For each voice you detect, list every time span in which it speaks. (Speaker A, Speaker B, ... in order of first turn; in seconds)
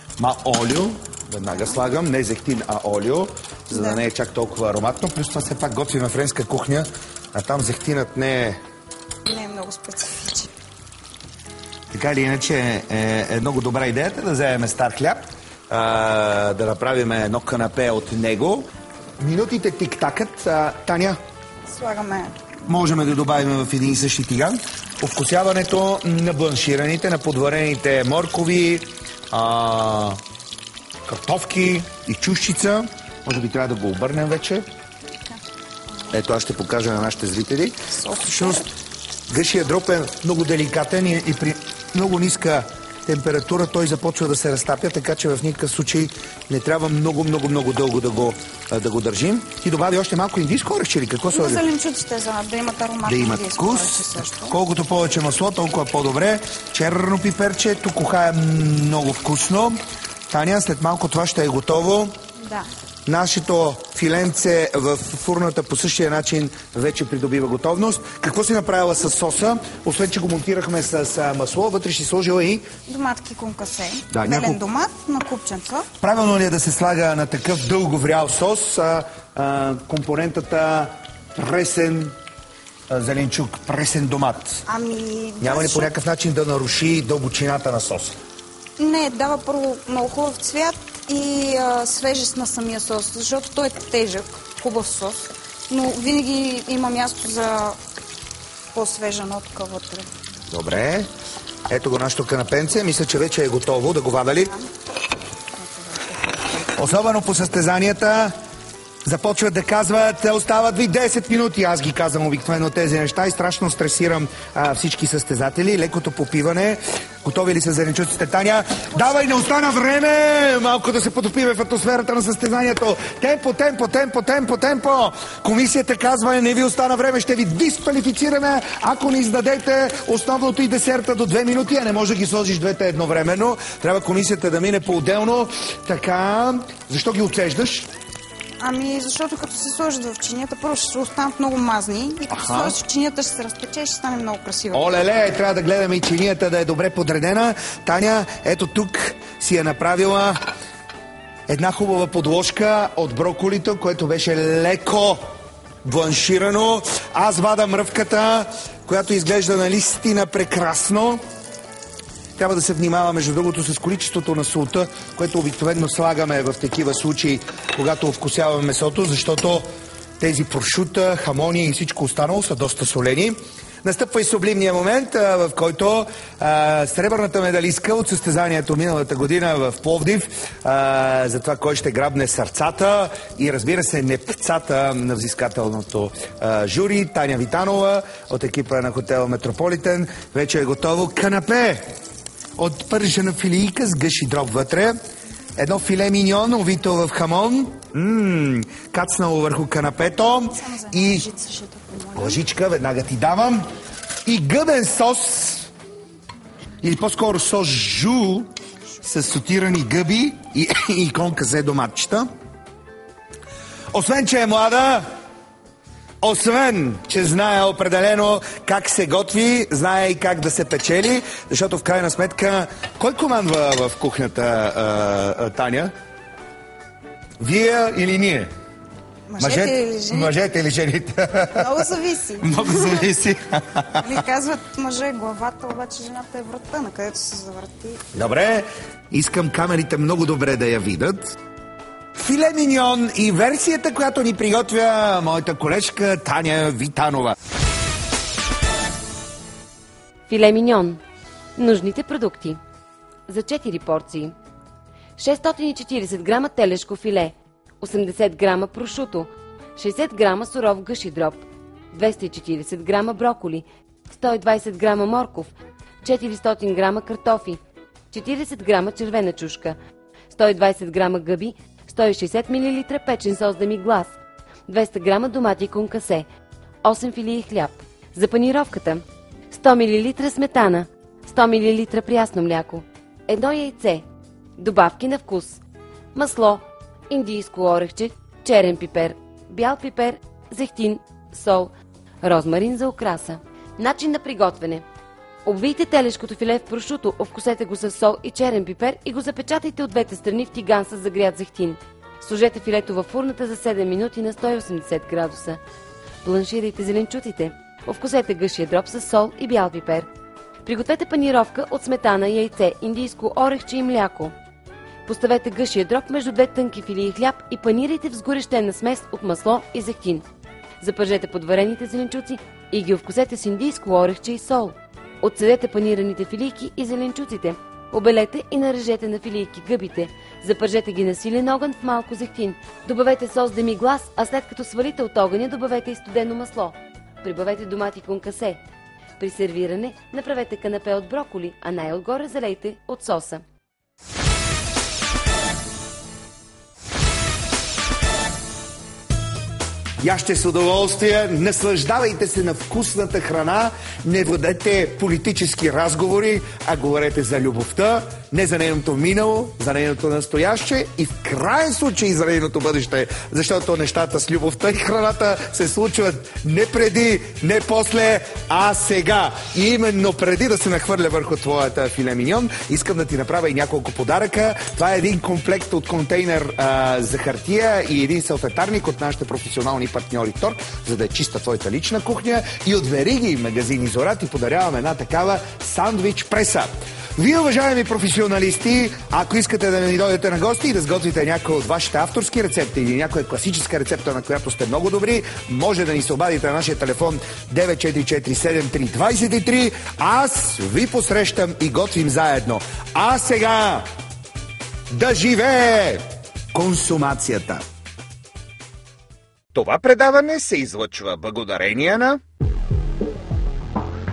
Speaker A: 0.2-8.6, 11.9-18.7, 19.2-21.2, 22.7-30.2, 31.1-34.6, 36.1-38.6, 39.3-51.6, 53.0-62.1, 63.0-72.7, 74.1-74.6, 76.0-82.1, 82.9-84.6, 85.4-88.2, 100.5-101.1, 101.7-104.5, 106.7-108.3, 109.0-137.9, 142.3-142.8, 144.7-150.4, 151.5-155.3, 155.8-161.2, 162.3-169.7, 170.2-191.9, 192.6-195.0, 195.6-201.2, 202.2-203.7, 204.2-205.7, 206.8-208.5, 209.0-212.3, 213.9-215.1, 216.2-225.9, 227.4-228.5, 229.4-231.7, 232.4-234.1, 238.1-241.3, 242.2-247.3, 350.0-403.9, 404.9-407.6, 409.5-412.2
Speaker B: 1.5-1.8, 3.7-4.0, 9.2-10.5, 21.7-22.4, 37.9-38.6, 51.3-54.5, 62.4-62.7, 72.9-75.9, 84.7-85.9, 88.8-97.8, 98.7-100.1, 105.5-106.8, 138.6-144.9, 200.5-202.4, 229.3-230.3, 231.5-233.1, 234.0-238.0
Speaker C: 250.3-251.0, 251.6-252.6, 253.3-254.3, 255.2-265.5, 266.0-267.6, 268.1-269.8, 270.3-274.1, 274.7-276.3, 276.8-284.0, 284.6-285.6, 286.1-294.9, 295.4-305.6, 306.2-310.1, 310.6-314.3, 315.1-320.2, 320.8-338.6, 339.2-343.4